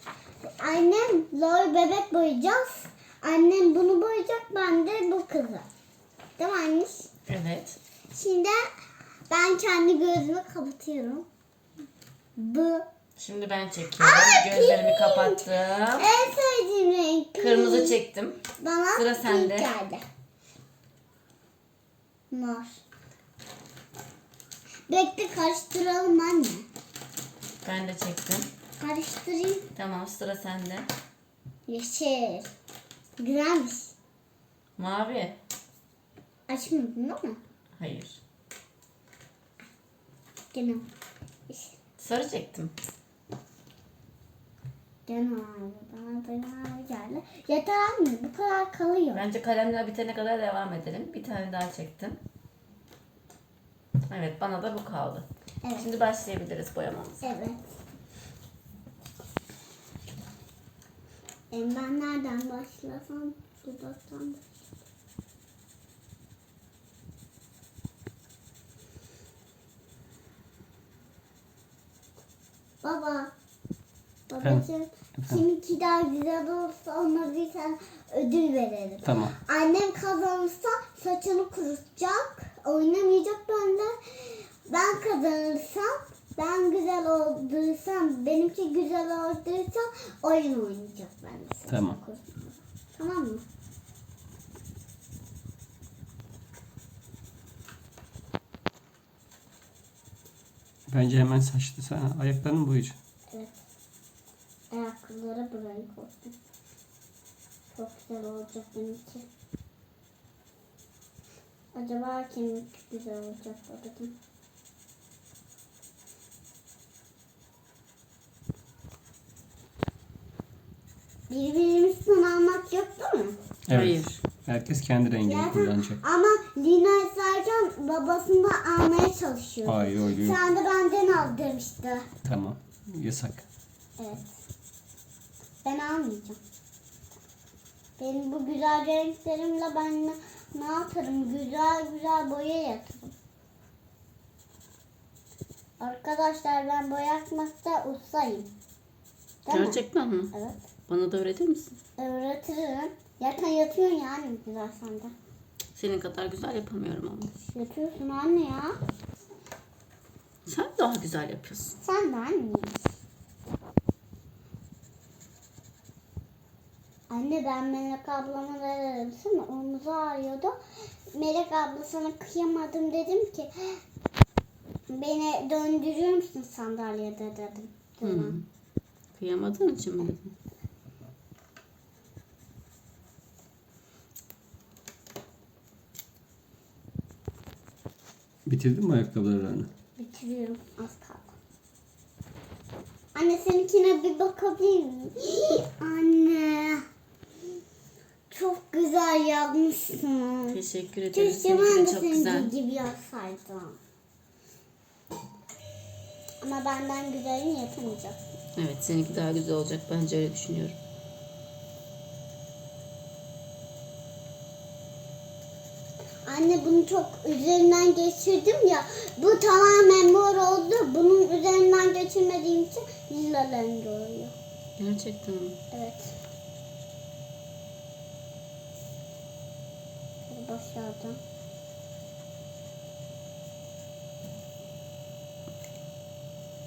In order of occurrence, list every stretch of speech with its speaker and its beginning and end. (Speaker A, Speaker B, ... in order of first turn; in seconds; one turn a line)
Speaker A: 0.6-5.6
Speaker A: 6.4-7.1
Speaker B: 7.3-7.8
Speaker A: 8.1-8.7
Speaker A: 9.3-11.2
Speaker A: 12.3-12.8
Speaker B: 13.2-16.1
Speaker A: 14.0-15.4
Speaker A: 15.9-18.0
Speaker B: 17.4-18.4
Speaker A: 18.6-20.0
Speaker B: 18.9-19.7
Speaker A: 22.3-22.8
Speaker A: 24.9-26.6
Speaker B: 27.6-28.5
Speaker A: 28.8-29.6
Speaker B: 29.7-30.9
Speaker A: 31.7-32.5
Speaker A: 33.2-33.9
Speaker B: 34.8-35.4
Speaker A: 36.5-37.4
Speaker B: 37.8-38.2
Speaker A: 40.5-40.9
Speaker A: 41.5-41.8
Speaker B: 42.0-42.7
Speaker A: 45.0-49.2
Speaker B: 49.1-52.2
Speaker B: 54.1-57.3
Speaker A: 55.6-55.9
Speaker A: 57.2-57.8
Speaker A: 61.5-64.6
Speaker A: 72.8-73.3
Speaker A: 74.3-93.4
Speaker C: 75.2-75.4
Speaker C: 79.0-79.3
Speaker C: 91.7-92.0
Speaker C: 100.9-103.0
Speaker A: 103.3-103.5
Speaker A: 104.7-106.3
Speaker A: 107.7-109.2
Speaker A: 111.7-114.1
Speaker A: 121.3-123.3
Speaker C: 123.7-126.0
Speaker B: 123.7-124.2
Speaker A: 125.2-132.1
Speaker C: 129.6-130.4
Speaker C: 132.2-133.4
Speaker A: 134.0-134.3
Speaker A: 135.6-136.4
Speaker A: 138.0-143.1
Speaker A: 145.8-148.5
Speaker A: 149.4-150.6
Speaker B: 149.5-150.3
Speaker B: 150.9-151.7
Speaker A: 152.0-155.1
Speaker B: 155.7-157.3
Speaker A: 157.4-158.7
Speaker B: 160.4-161.8
Speaker A: 161.8-162.8
Speaker A: 167.1-170.5
Speaker A: 171.1-173.8
Speaker A: 174.9-178.4
Speaker B: 178.0-178.4
Speaker B: 179.1-180.3
Speaker C: 188.4-189.7
Speaker A: 190.0-191.3
Speaker A: 193.1-196.8
Speaker A: 198.3-200.6
Speaker B: 200.5-202.5
Speaker A: 201.1-203.8
Speaker A: 206.4-208.2
Speaker B: 208.6-210.8
Speaker A: 216.2-224.3
Speaker B: 224.8-225.6
Speaker A: 225.7-226.1
Speaker A: 230.3-231.2